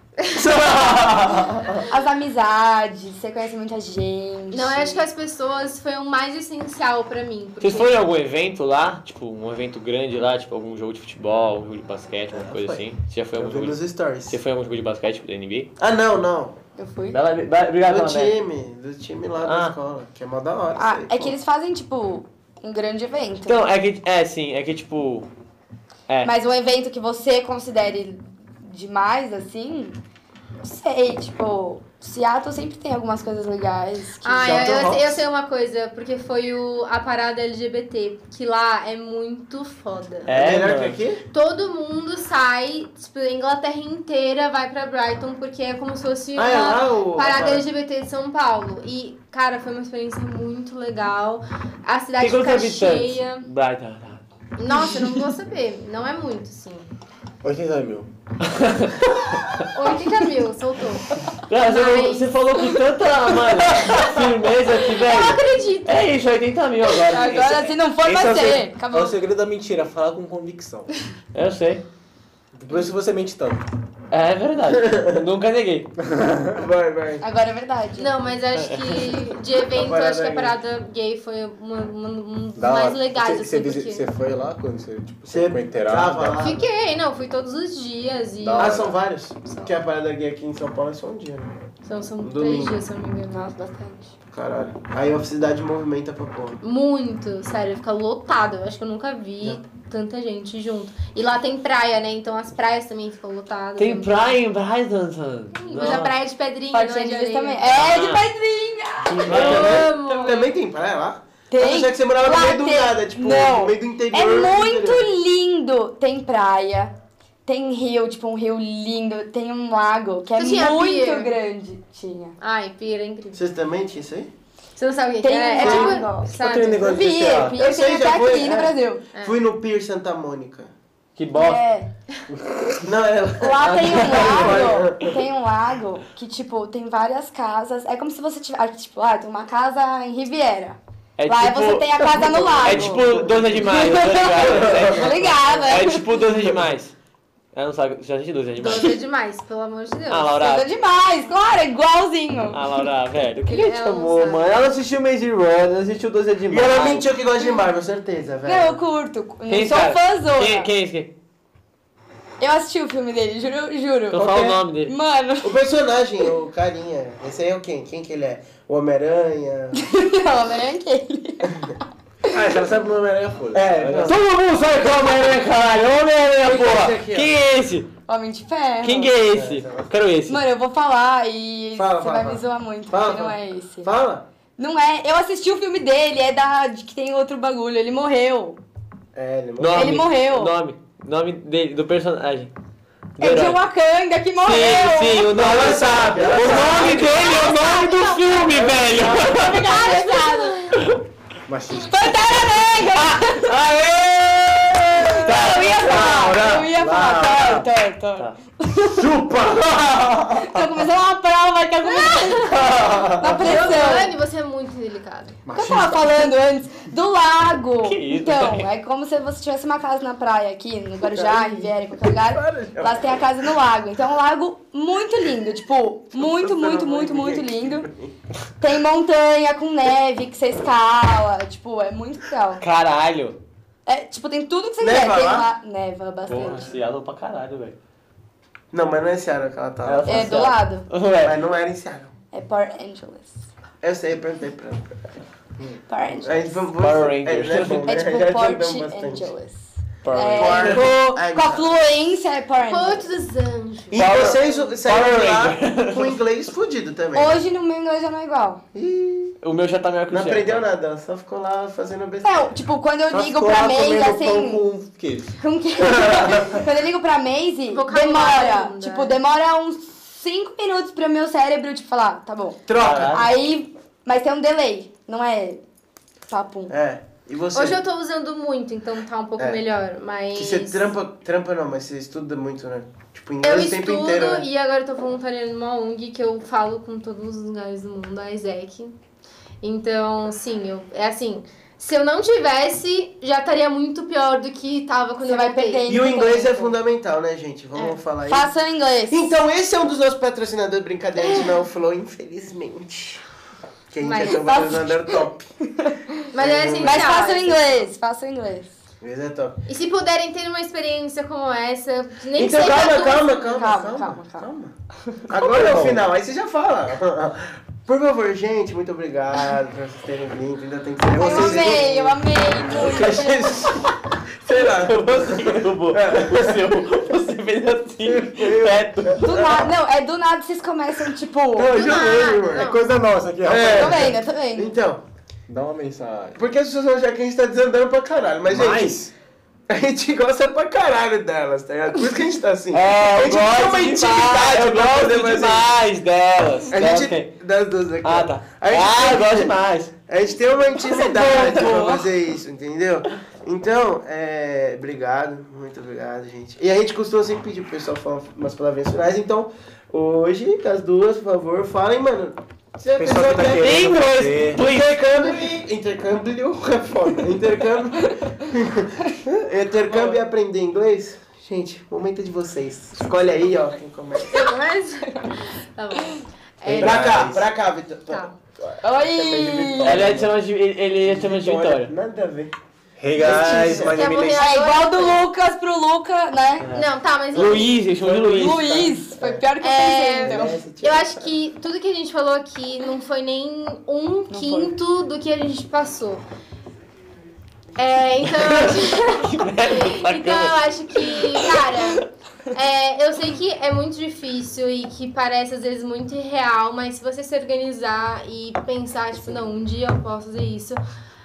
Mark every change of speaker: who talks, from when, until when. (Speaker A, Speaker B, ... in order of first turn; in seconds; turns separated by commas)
Speaker A: 0.4-1.6, Speaker B: 0.5-1.8, Speaker C: 1.9-5.0, Speaker D: 4.5-8.0, Speaker A: 7.6-15.7, Speaker B: 12.3-12.8, Speaker B: 13.3-14.4, Speaker B: 15.8-16.6, Speaker C: 16.8-17.2, Speaker A: 17.1-18.4, Speaker B: 17.9-21.3, Speaker A: 19.4-19.8, Speaker C: 20.8-23.7, Speaker A: 23.5-25.3, Speaker C: 26.2-30.0, Speaker C: 30.6-34.7, Speaker D: 34.2-40.3, Speaker B: 34.4-35.2, Speaker E: 34.6-35.0, Speaker A: 40.3-41.0, Speaker B: 40.3-41.2, Speaker D: 41.3-53.5, Speaker B: 46.4-47.6, Speaker A: 52.2-54.2, Speaker D: 54.6-56.9, Speaker E: 57.4-58.1, Speaker A: 58.4-59.7, Speaker D: 59.7-62.4, Speaker A: 61.4-67.8, Speaker D: 63.8-64.2, Speaker D: 64.7-66.2, Speaker C: 67.0-69.2, Speaker E: 68.0-70.9, Speaker A: 71.3-71.8, Speaker E: 72.5-73.7, Speaker A: 74.1-75.9, Speaker B: 74.7-75.2, Speaker E: 76.2-76.6, Speaker B: 76.5-77.2, Speaker C: 77.2-78.2, Speaker D: 78.0-84.1, Speaker A: 78.6-79.0, Speaker B: 79.7-80.6, Speaker E: 82.6-86.5, Speaker B: 85.3-86.7, Speaker D: 86.4-88.9, Speaker E: 88.4-89.0, Speaker B: 88.6-91.5, Speaker D: 89.5-89.8, Speaker D: 91.8-93.5, Speaker B: 92.2-92.8, Speaker C: 93.3-94.1, Speaker B: 94.3-96.6, Speaker D: 96.6-104.2, Speaker A: 103.8-106.2, Speaker D: 105.5-107.8, Speaker C: 106.7-109.7, Speaker A: 107.7-108.3, Speaker A: 109.1-109.9, Speaker B: 109.3-115.1, Speaker D: 109.3-110.5, Speaker C: 111.5-116.9, Speaker C: 117.5-122.4, Speaker D: 120.4-121.3, Speaker D: 122.4-123.4, Speaker B: 123.3-124.3, Speaker D: 124.8-127.0, Speaker C: 125.2-129.0, Speaker E: 125.6-127.6, Speaker B: 127.5-130.7, Speaker D: 129.1-129.4, Speaker A: 131.2-131.6, Speaker C: 131.3-131.9, Speaker E: 132.3-132.9, Speaker B: 132.8-135.2, Speaker C: 133.4-146.1, Speaker A: 133.6-134.7, Speaker A: 141.2-146.9, Speaker B: 142.2-143.7, Speaker B: 144.5-145.0, Speaker A: 147.5-149.0, Speaker D: 148.6-150.3, Speaker A: 150.1-150.7, Speaker C: 150.4-152.8, Speaker A: 152.5-157.1, Speaker D: 153.4-154.6, Speaker B: 156.5-158.8, Speaker C: 158.4-160.7, Speaker A: 159.5-161.1, Speaker C: 162.4-165.6, Speaker A: 164.1-164.9, Speaker B: 165.4-169.8, Speaker C: 169.7-172.4, Speaker E: 172.3-174.2, Speaker B: 173.5-174.2, Speaker A: 173.9-177.9, Speaker B: 176.4-177.3, Speaker C: 178.1-179.1, Speaker A: 178.8-180.4, Speaker B: 179.3-179.9, Speaker C: 180.3-183.9, Speaker B: 181.8-184.2, Speaker C: 184.6-188.6, Speaker B: 189.1-190.1, Speaker A: 189.6-192.5, Speaker C: 189.7-190.6, Speaker A: 193.2-193.6, Speaker C: 193.2-195.8, Speaker A: 194.4-199.7, Speaker B: 195.3-197.4, Speaker C: 196.4-198.4, Speaker D: 196.7-198.4, Speaker B: 198.5-199.3, Speaker C: 199.0-200.8, Speaker D: 199.1-200.8, Speaker A: 200.8-201.0, Speaker E: 201.5-202.2, Speaker C: 201.8-203.6, Speaker A: 202.8-206.7, Speaker C: 204.9-209.1, Speaker E: 205.9-207.7, Speaker E: 208.9-210.2, Speaker A: 209.0-210.6, Speaker C: 210.3-214.1, Speaker D: 211.8-215.4, Speaker A: 212.4-213.9, Speaker E: 215.5-216.3, Speaker C: 215.5-227.9, Speaker A: 217.8-218.7, Speaker B: 221.1-223.2, Speaker B: 226.2-228.1, Speaker C: 228.6-232.6, Speaker A: 232.6-233.4, Speaker C: 233.9-236.7, Speaker B: 234.8-235.5, Speaker A: 236.3-237.8, Speaker B: 238.7-240.3, Speaker A: 239.8-241.4, Speaker C: 240.1-240.9, Speaker B: 241.2-242.1, Speaker C: 242.3-243.4, Speaker B: 243.8-245.2, Speaker C: 245.9-246.6, Speaker B: 246.2-249.3, Speaker A: 246.8-248.0, Speaker C: 247.8-253.1, Speaker A: 250.0-251.1, Speaker B: 250.3-251.8, Speaker D: 252.7-254.7, Speaker B: 253.9-257.4, Speaker A: 253.9-256.2, Speaker C: 257.1-258.6, Speaker B: 258.7-259.4, Speaker A: 259.4-260.6, Speaker B: 260.1-262.6, Speaker C: 262.2-264.6, Speaker E: 263.1-265.4, Speaker C: 265.4-275.6, Speaker D: 267.7-269.2, Speaker B: 272.7-273.2, Speaker A: 272.7-273.3, Speaker C: 276.3-276.7, Speaker B: 276.7-277.8, Speaker D: 277.5-280.9, Speaker B: 280.4-284.5, Speaker D: 283.4-289.0, Speaker D: 289.6-295.9, Speaker C: 295.2-296.8, Speaker B: 295.9-298.5, Speaker C: 298.3-299.4, Speaker B: 299.1-303.2, Speaker B: 303.9-305.5, Speaker D: 304.0-304.8, Speaker C: 304.2-306.3, Speaker D: 306.3-307.9, Speaker B: 306.4-307.2, Speaker C: 306.8-308.8, Speaker B: 309.0-309.6, Speaker D: 309.7-313.4, Speaker B: 312.4-314.7, Speaker C: 313.2-314.5, Speaker B: 315.3-326.8, Speaker A: 315.4-316.0, Speaker C: 321.2-323.8, Speaker A: 324.5-329.5, Speaker B: 328.0-329.7, Speaker C: 329.2-331.9, Speaker B: 331.6-332.8, Speaker D: 331.7-332.9, Speaker E: 332.5-334.2, Speaker B: 333.4-335.0, Speaker C: 333.7-334.7, Speaker E: 335.5-336.4, Speaker B: 336.4-339.0, Speaker E: 338.5-339.1, Speaker B: 339.7-345.7, Speaker A: 342.7-347.3, Speaker B: 346.7-349.5, Speaker A: 348.0-349.9, Speaker B: 350.1-363.9, Speaker C: 350.8-351.9, Speaker A: 351.0-352.1, Speaker E: 362.9-364.6, Speaker A: 363.4-365.4, Speaker B: 364.5-374.4, Speaker A: 369.9-370.2, Speaker D: 374.3-377.3, Speaker E: 376.6-377.4, Speaker B: 376.7-380.4, Speaker C: 378.8-380.1, Speaker A: 379.8-381.9, Speaker B: 381.0-382.5, Speaker E: 383.0-384.5, Speaker B: 383.1-384.0, Speaker D: 383.4-385.2, Speaker C: 384.4-386.8, Speaker A: 386.6-388.9, Speaker D: 386.7-387.8, Speaker B: 387.4-389.5, Speaker C: 388.3-390.6, Speaker D: 389.6-396.2, Speaker B: 390.2-391.2, Speaker C: 394.3-394.7, Speaker D: 397.8-410.8, Speaker A: 398.4-402.0